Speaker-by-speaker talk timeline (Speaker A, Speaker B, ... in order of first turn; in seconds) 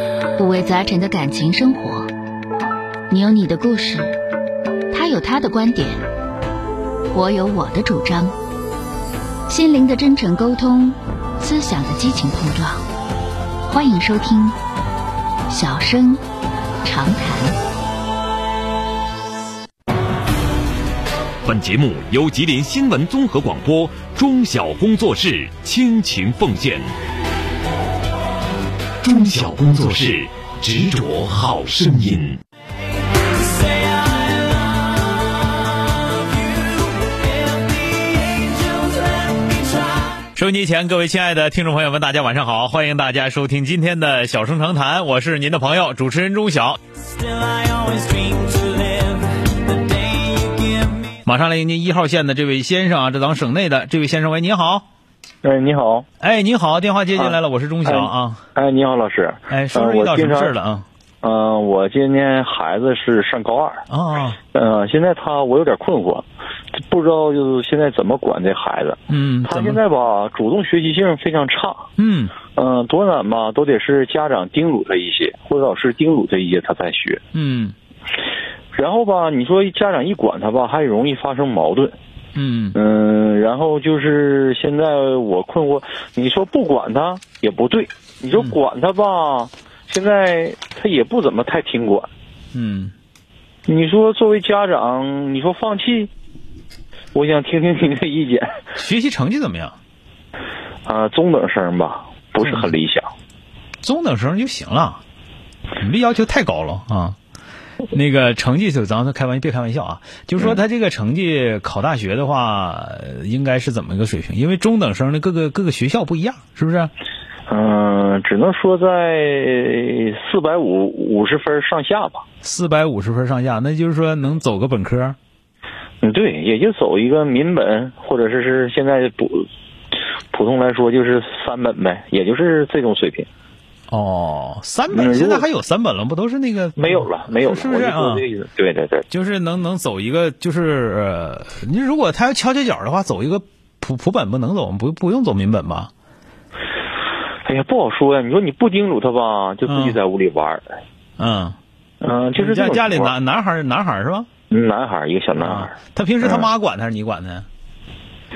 Speaker A: 0.4-2.1, 3.1-4.2, 4.9-6.0, 7.1-8.3, 9.5-12.8, 13.7-14.6, 15.5-16.2, 16.8-17.6
Speaker B: 21.4-26.9, 29.0-32.4
Speaker C: 38.2-39.5, 47.2-51.1
Speaker D: 40.3-46.8, 51.2-54.8, 56.2-58.4, 59.5-60.9, 63.9-64.4, 69.1-69.8, 72.0-72.3, 77.3-77.7, 82.3-82.8, 92.5-92.9, 98.8-99.7, 102.4-102.7, 103.8-105.0, 105.8-107.2, 107.9-116.9, 122.4-125.2, 133.9-138.2, 139.1-145.9, 149.7-150.0, 151.2-151.6, 152.3-154.3, 155.4-157.4
Speaker E: 55.4-56.0, 57.1-60.5, 61.2-63.8, 64.5-66.2, 66.8-71.8, 72.5-77.2, 78.7-82.0, 82.7-92.1, 93.7-96.1, 97.1-98.5, 100.8-103.1, 117.5-122.2, 126.0-129.5, 130.3-133.3, 134.9-135.4, 136.8-139.0, 147.4-150.6, 152.0-153.1, 154.5-156.4